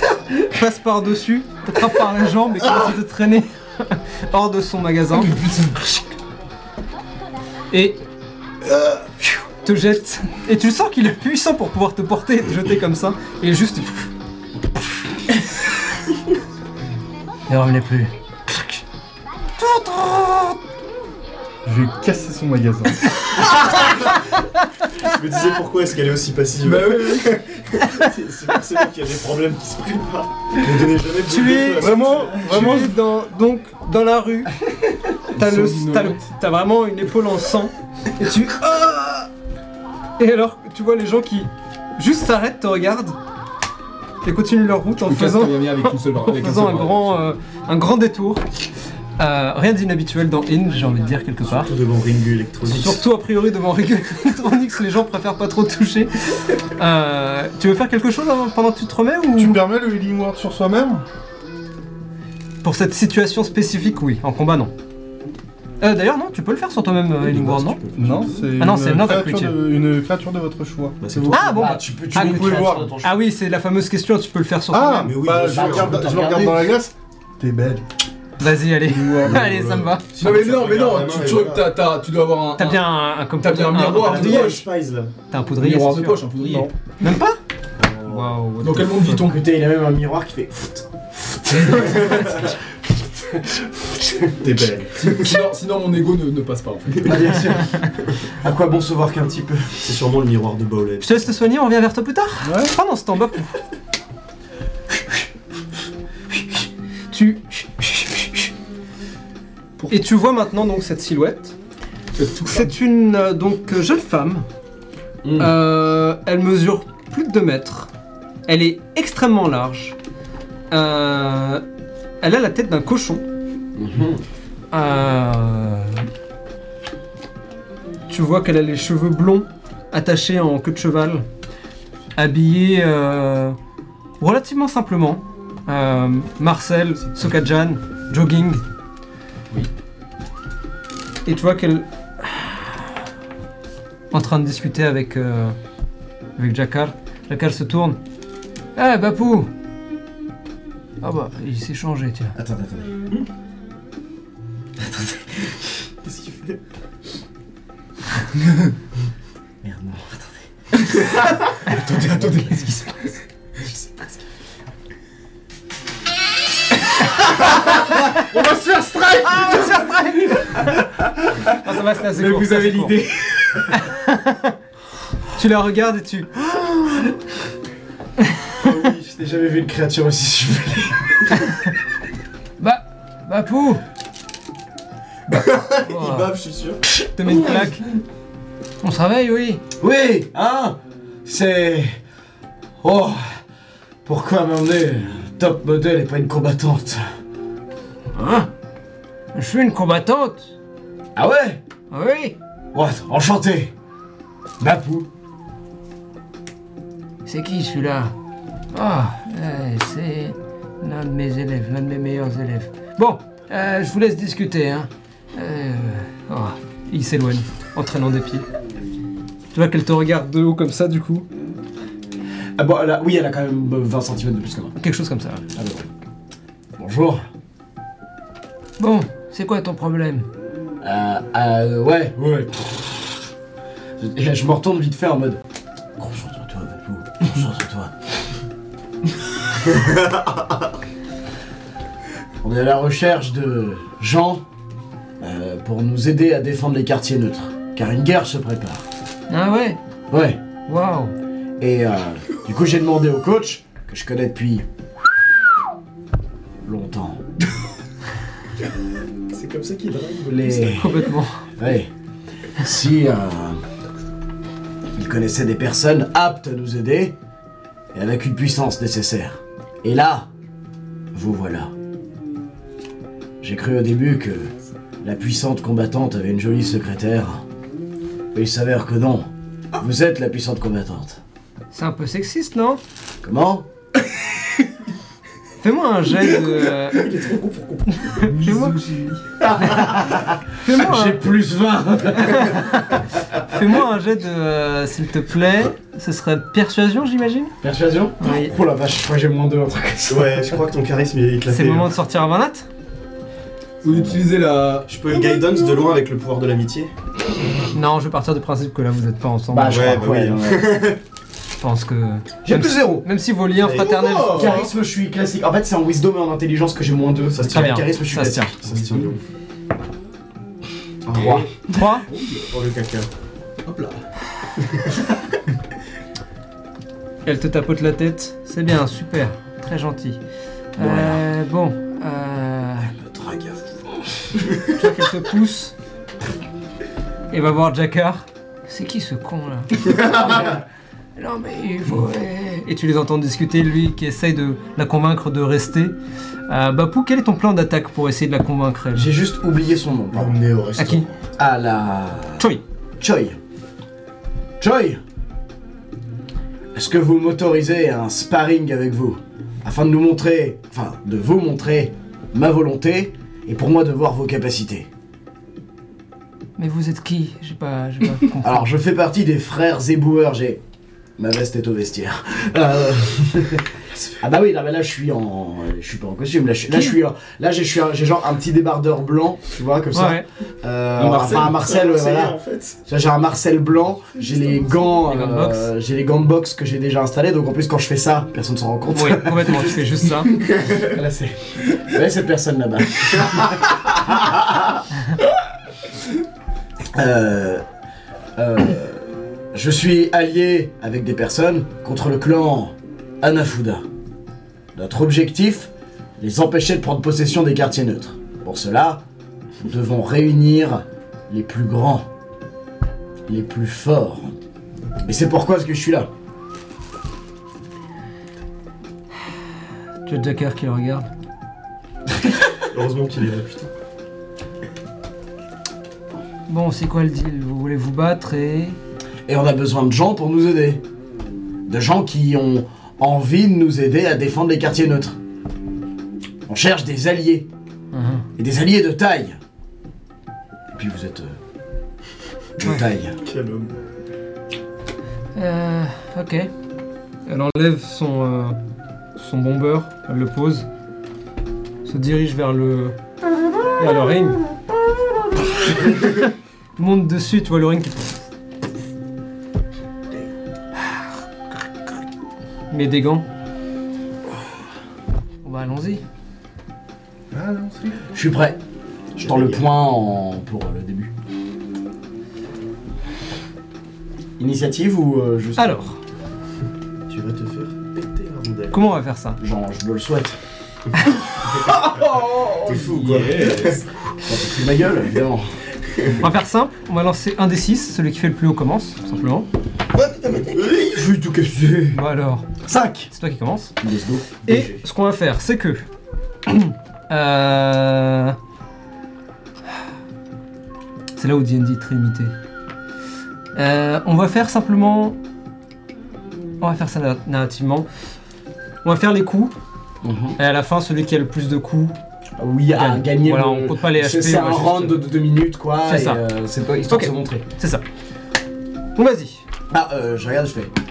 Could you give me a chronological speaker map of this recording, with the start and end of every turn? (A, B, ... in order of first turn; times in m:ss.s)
0:00.3-0:06.0 A
0:07.7-0:08.0 A
0:09.6-0:14.1 A
0:17.5-0:18.8 A
0:19.6-0:20.6 A
0:21.6-0:23.2 B
0:23.4-0:24.2 C
0:25.0-0:32.5 C
0:26.6-0:27.6 D
0:31.2-0:34.5 A
0:31.8-0:33.0 B
0:35.2-0:39.3 A
0:35.4-0:36.3 D
0:40.2-0:43.2 A
0:44.2-0:48.4 A
0:45.0-0:47.2 D
0:49.2-0:51.7 A
0:51.5-0:53.0 C
0:52.6-0:59.6 A
0:59.4-1:01.0 B
1:02.6-1:04.7 A
1:05.8-1:07.8 A
1:07.2-1:08.5 C
1:08.0-1:12.9 B
1:08.6-1:09.6 A
1:11.0-1:11.6 C
1:11.3-1:15.2 A
1:11.5-1:13.2 E
1:14.7-1:17.8 B
1:15.0-1:16.2 C
1:15.4-1:16.7 E
1:18.4-1:20.1 A
1:18.9-1:19.9 B
1:20.2-1:21.7 C
1:20.2-1:24.6 D
1:22.6-1:24.6 A
1:23.8-1:25.1 C
1:25.3-1:27.4 A
1:25.6-1:26.7 D
1:27.8-1:28.3 C
1:28.0-1:29.3 A
1:28.6-1:29.4 D
1:29.2-1:32.6 E
1:34.4-1:35.4 C
1:35.0-1:37.5 D
1:37.0-1:40.0 E
1:39.8-1:41.1 C
1:41.0-1:43.6 A
1:42.4-1:42.8 B
1:47.1-1:48.5 A
1:49.9-1:51.6 A
1:52.2-1:52.6 D
1:52.4-1:54.5 A
1:55.2-1:55.5 E
1:55.4-1:57.9 A
1:58.5-2:00.0 A
2:00.7-2:01.6 A
2:02.2-2:03.2 A
2:03.8-2:04.2 E
2:04.7-2:06.1 A
2:08.1-2:11.3 A
2:12.2-2:13.6 A
2:14.2-2:18.6 A
2:21.3-2:22.8 A
2:24.1-2:25.6 A
2:26.4-2:28.0 A
2:28.8-2:29.5 A
2:31.0-2:32.4 A
2:32.4-2:32.9 E
2:34.8-2:35.3 E
2:36.0-2:36.6 C
2:39.6-2:40.4 E
2:41.6-2:42.8 E
2:48.1-2:49.8 B
2:49.2-2:50.9 A
2:51.5-2:53.0 A
2:52.1-2:53.7 E
2:53.7-2:54.6 A
2:55.3-2:57.0 A
2:58.6-2:59.0 C
2:59.0-3:01.5 E
3:02.6-3:03.8 A
3:05.3-3:06.8 C
3:05.8-3:06.3 A
3:07.0-3:07.8 A
3:08.8-3:09.6 A
3:09.8-3:12.0 E
3:12.8-3:13.4 E
3:14.0-3:17.0 E
3:18.2-3:18.5 E
3:19.3-3:20.5 A
3:21.2-3:21.6 E
3:21.9-3:22.4 A
3:22.7-3:23.7 E
3:24.6-3:25.1 E
3:27.3-3:28.1 A
3:28.7-3:38.4 A
3:39.5-3:41.3 A
3:42.6-3:44.7 E
3:44.8-3:45.4 A
3:45.5-3:45.9 E
3:46.8-3:47.2 E
3:48.8-3:50.3 A
3:50.8-3:53.1 E
3:54.0-3:55.4 E
3:56.0-3:57.9 E
4:02.4-4:04.4 E
4:05.2-4:08.8 E
4:09.3-4:09.8 A
4:10.1-4:10.4 E
4:10.7-4:11.1 A
4:11.6-4:14.6 E
4:16.6-4:17.2 E
4:19.3-4:20.8 C
4:20.3-4:21.9 E
4:20.7-4:21.4 A
4:22.6-4:23.6 E
4:25.0-4:27.2 E
4:27.9-4:30.3 E
4:31.1-4:31.7 E
4:33.4-4:37.4 E
4:38.3-4:41.2 E
4:41.7-4:42.8 A
4:43.2-4:43.7 E
4:45.6-4:47.2 A
4:47.0-4:48.0 C
4:47.9-4:48.8 A
4:48.1-4:49.2 D
4:49.4-4:53.0 E
4:50.6-4:51.2 A
4:52.2-4:57.6 A
4:57.6-5:00.6 E
4:58.2-4:58.6 A
5:00.1-5:01.9 C
5:01.5-5:02.7 A
5:03.8-5:04.9 D
5:04.9-5:06.9 C
5:07.7-5:10.0 A
5:09.5-5:10.8 E
5:09.7-5:11.0 C
5:11.6-5:14.7 A
5:12.4-5:13.1 E
5:13.6-5:14.7 C
5:14.2-5:18.6 E
5:17.3-5:17.8 C
5:17.5-5:18.5 A
5:18.6-5:19.2 C
5:18.6-5:19.1 D
5:21.1-5:21.5 C
5:21.2-5:21.5 D
5:21.2-5:21.5 E
5:21.7-5:22.1 A
5:22.1-5:22.5 D
5:22.5-5:23.1 C
5:23.6-5:24.0 D
5:27.2-5:30.2 A
5:30.8-5:32.9 A
5:30.8-5:31.2 E
5:32.8-5:34.3 E
5:34.7-5:35.8 A
5:37.3-5:40.6 A
5:41.2-5:46.0 A
5:46.5-5:49.1 A
5:48.9-5:50.4 E
5:50.1-5:51.2 C
5:50.8-5:51.1 A
5:51.4-5:52.5 E
5:53.0-5:53.4 E
5:54.6-5:55.0 E
5:56.7-6:04.9 E
6:06.6-6:08.7 A
6:08.4-6:10.6 E
6:11.2-6:29.8 E
6:14.0-6:14.2 C
6:16.7-6:17.0 A
6:19.9-6:20.3 A
6:21.0-6:21.5 D
6:21.0-6:22.8 C
6:25.0-6:25.7 A
6:28.9-6:30.3 A
6:30.4-6:34.8 E
6:36.9-6:37.6 E
6:38.4-6:43.9 E
6:44.8-6:49.0 E
6:49.6-6:52.1 E
6:53.3-6:54.3 E
6:55.0-6:56.1 E
7:00.1-7:01.1 A
7:02.7-7:03.7 C
7:06.5-7:08.8 A
7:09.3-7:10.8 E
7:11.7-7:15.2 E
7:16.5-7:17.5 E
7:17.9-7:18.3 A
7:18.4-7:19.4 E
7:20.7-7:21.4 E
7:22.6-7:23.2 E
7:23.2-7:23.7 C
7:25.4-7:26.5 A
7:27.3-7:28.6 A
7:29.2-7:30.7 A
7:31.8-7:33.0 A
7:33.8-7:34.5 A
7:35.5-7:38.2 A
7:42.7-7:43.3 A
7:45.4-7:46.0 A
7:47.3-7:48.1 B
7:48.1-7:48.6 E
7:49.2-7:49.7 C
7:49.2-7:51.1 E
7:54.4-7:55.8 E
7:55.6-7:56.0 A
7:57.1-7:58.8 C
7:58.7-7:59.4 A
7:59.4-8:00.4 E
8:01.5-8:03.8 C
8:01.7-8:03.8 D
8:04.2-8:05.5 E
8:06.2-8:09.5 A
8:09.9-8:12.0 C
8:11.9-8:12.5 A
8:12.6-8:13.1 E
8:13.1-8:13.8 A
8:13.8-8:14.8 E
8:14.4-8:15.8 A
8:16.5-8:18.4 A
8:21.2-8:22.3 A
8:23.6-8:25.2 A
8:26.6-8:27.9 A
8:28.8-8:29.5 A
8:30.0-8:30.4 E
8:30.4-8:32.0 A
8:32.4-8:37.4 E
8:32.7-8:35.0 A
8:35.8-8:36.2 A
8:36.9-8:37.8 A
8:39.0-8:39.4 A
8:39.7-8:40.7 E